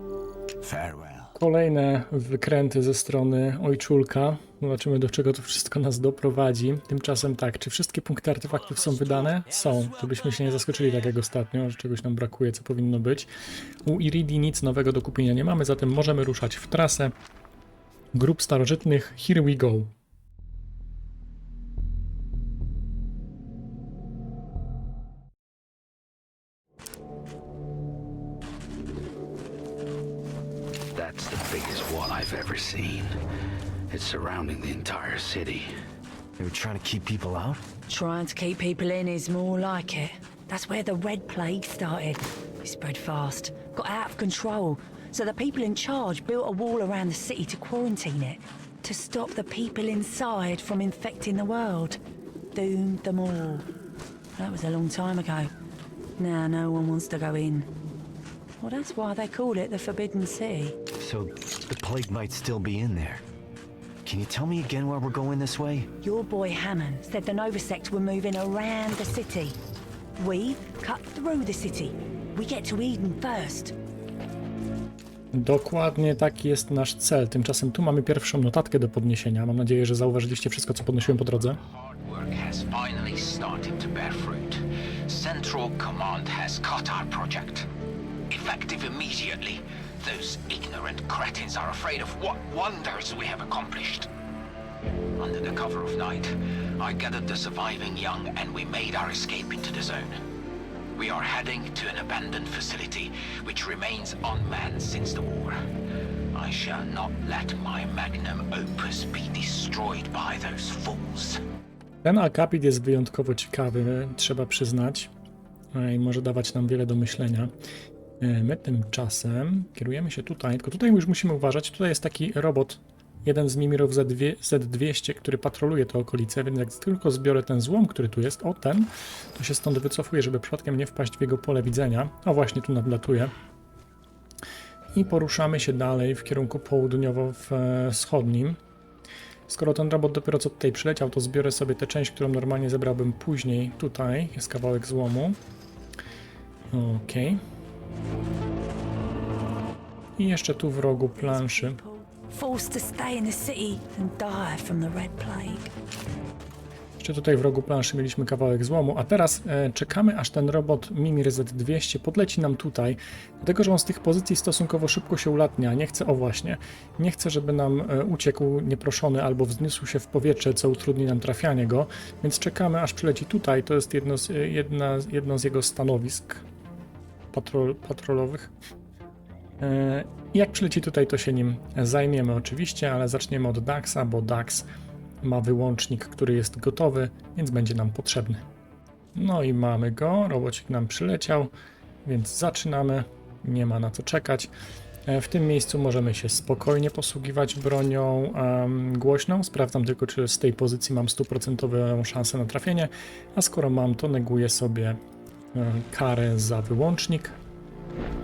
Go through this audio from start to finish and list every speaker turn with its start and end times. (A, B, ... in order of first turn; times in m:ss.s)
0:00.6-0:01.3 A
0:01.4-0:13.3 B
0:09.0-0:09.7 A
0:13.8-0:17.1 B
0:18.1-0:19.9 B
0:30.9-0:33.2 C
0:33.9-0:35.7 C
0:36.4-0:37.6 D
0:37.9-0:52.0 E
0:52.5-0:53.7 E
0:54.4-0:55.5 E
0:56.2-0:57.7 E
0:58.6-1:00.8 E
1:01.0-1:03.2 D
1:04.0-1:05.9 D
1:06.0-1:09.6 E
1:10.2-1:13.7 E
1:15.3-1:21.6 B
1:21.2-1:27.7 A
1:28.3-1:34.1 A
1:35.2-1:40.2 A
1:41.0-1:45.6 A
1:46.3-1:51.4 A
1:52.0-1:55.1 B
1:55.7-1:57.5 B
1:58.2-2:13.3 B
2:14.9-2:18.6 B
2:19.5-2:25.4 B
2:26.7-2:27.4 B
2:30.2-2:31.8 B
2:31.1-2:35.7 E
2:37.0-2:56.4 B
2:57.3-2:58.5 B
2:59.6-3:04.7 B
3:05.2-3:08.4 B
3:09.1-3:11.5 B
3:12.0-3:14.5 B
3:15.0-3:25.0 B
3:25.5-3:27.4 B